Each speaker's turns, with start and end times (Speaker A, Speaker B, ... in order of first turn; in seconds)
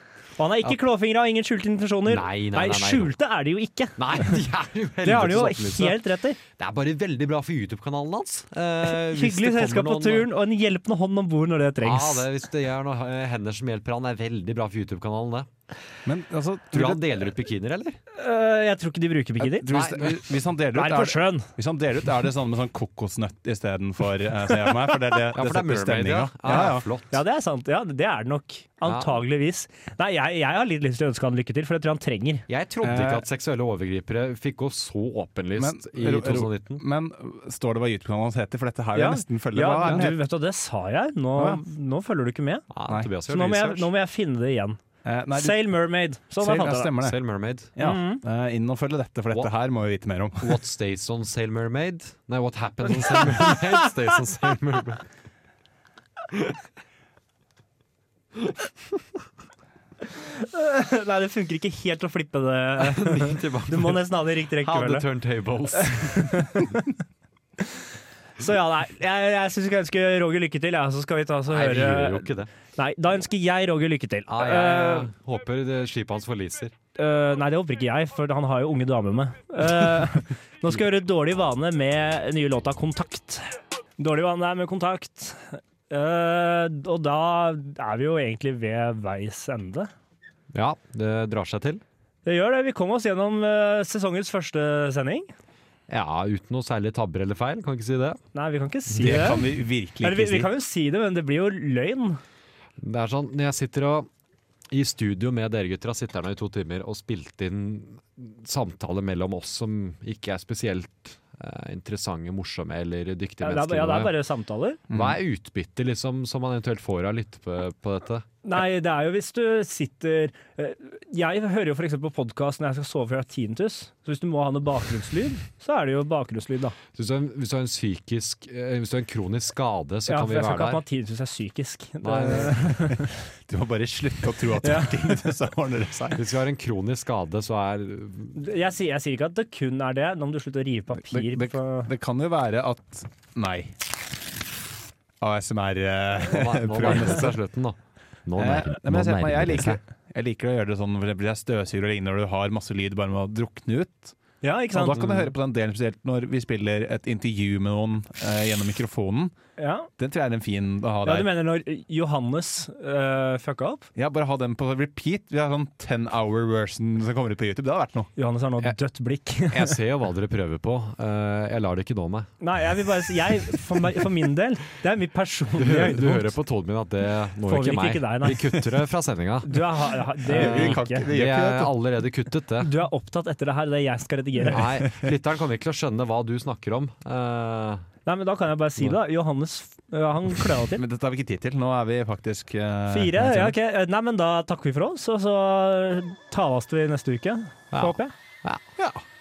Speaker A: 0.4-4.4, 5.0-6.4, 8.8-12.3, 18.1-20.1, 20.7-21.5, 26.5-32.5, 38.9-42.6, 43.3-44.8, 45.3-46.9, 47.8-48.2, 60.1-65.1, 65.8-66.8, 68.4-75.1, 76.9-89.9, 92.2-95.3, 98.3-99.5, 100.0-102.2, 113.4-114.8, 118.4-126.8, 130.1-133.1, 134.6-135.2, 138.3-141.9, 154.4-155.0, 159.6-159.9, 161.1-163.9, 168.2-169.8, 172.4-176.3, 177.4-178.7, 179.4-181.0, 182.6-184.8, 188.1-190.8, 192.9-198.1
Speaker B: 2.1-3.1, 4.0-10.3, 11.8-15.5, 16.7-18.0, 19.7-20.2, 25.4-27.2, 28.9-29.2, 32.5-36.8, 42.7-43.9, 47.0-47.7, 50.4-55.0, 56.3-56.6, 62.8-66.5, 71.5-72.5, 74.3-76.7, 90.5-91.8, 95.9-98.2, 99.0-99.3, 102.8-104.1, 104.7-114.2, 114.9-118.2, 126.9-130.8, 132.0-132.6, 136.1-138.4, 146.1-149.8, 154.9-155.3, 169.5-172.3, 175.6-182.7, 184.4-187.8, 197.7-198.8
Speaker C: 16.1-17.3, 19.4-26.9, 32.8-33.2, 35.6-40.2, 41.4-41.6, 45.0-45.7, 46.4-47.2, 47.8-50.6, 99.0-100.5, 132.8-136.2, 141.0-143.8, 145.2-147.4, 148.4-154.1, 154.7-159.3, 160.0-161.3, 164.0-168.1, 180.3-181.7, 190.8-193.6